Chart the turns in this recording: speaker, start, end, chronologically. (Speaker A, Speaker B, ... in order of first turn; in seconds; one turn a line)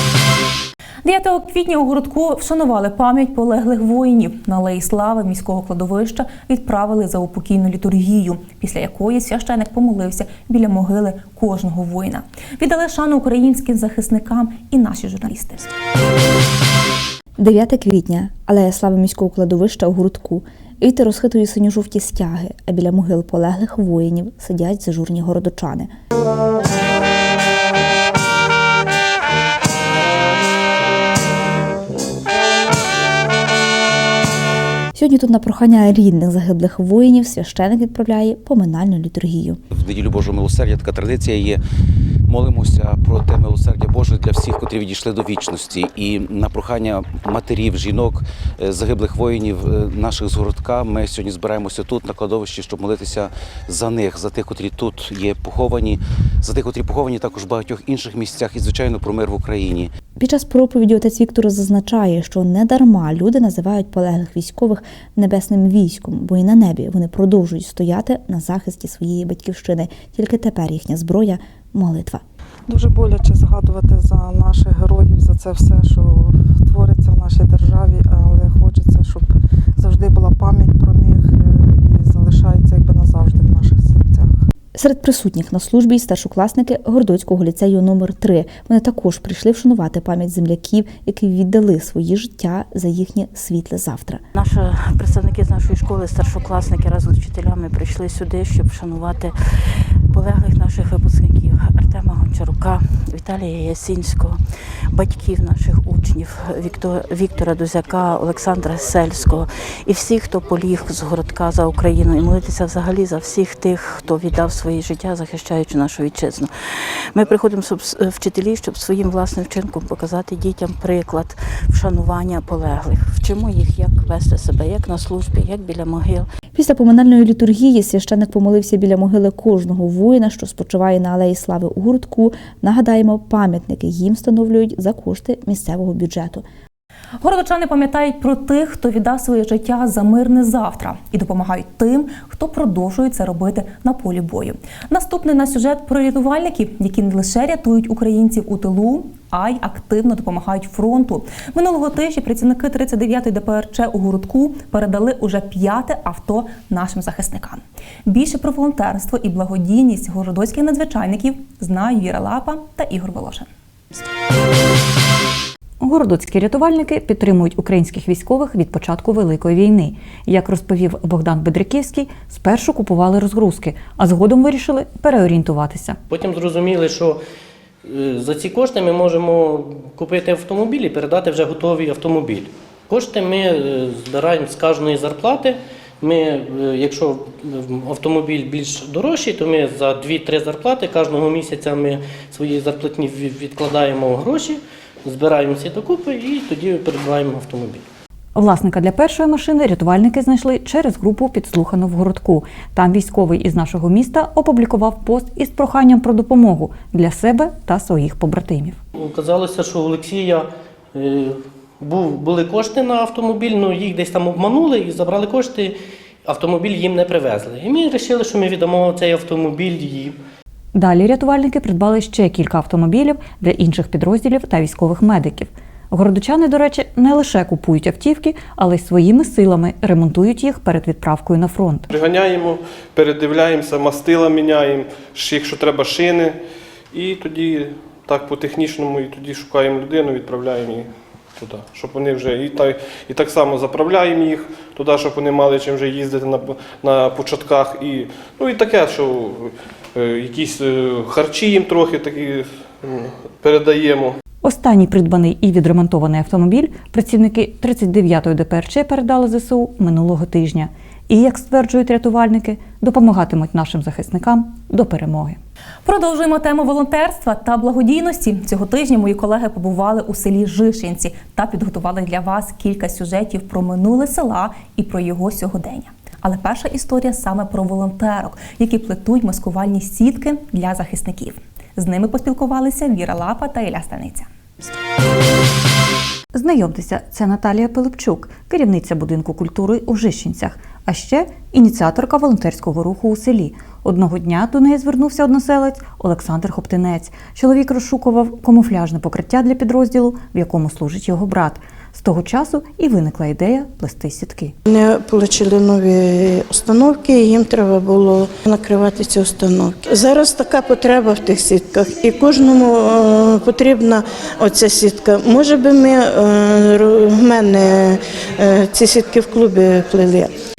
Speaker A: 1.0-15.7
Speaker B: 17.4-25.9
Speaker B: 34.9-39.6
Speaker C: 39.7-41.6
Speaker C: 42.3-59.9
Speaker B: 60.2-72.2
Speaker D: 72.7-79.2
Speaker D: 79.8-84.3
Speaker B: 84.7-94.2
Speaker E: 94.3-104.4
Speaker E: 104.9-116.5
Speaker E: 117.1-126.3
Speaker B: 126.5-136.4
Speaker A: 137.2-163.5
Speaker F: 165.8-176.0
Speaker G: 176.1-177.2
Speaker G: 177.8-197.8
Speaker F: 198.3-208.8
Speaker G: 208.9-220.2
Speaker F: 220.7-231.8
Speaker H: 231.9-236.4
Speaker H: 236.9-254.2
Speaker F: 254.4-265.4
Speaker A: 265.8-284.3
Speaker F: 286.3-304.5
Speaker I: 304.7-320.3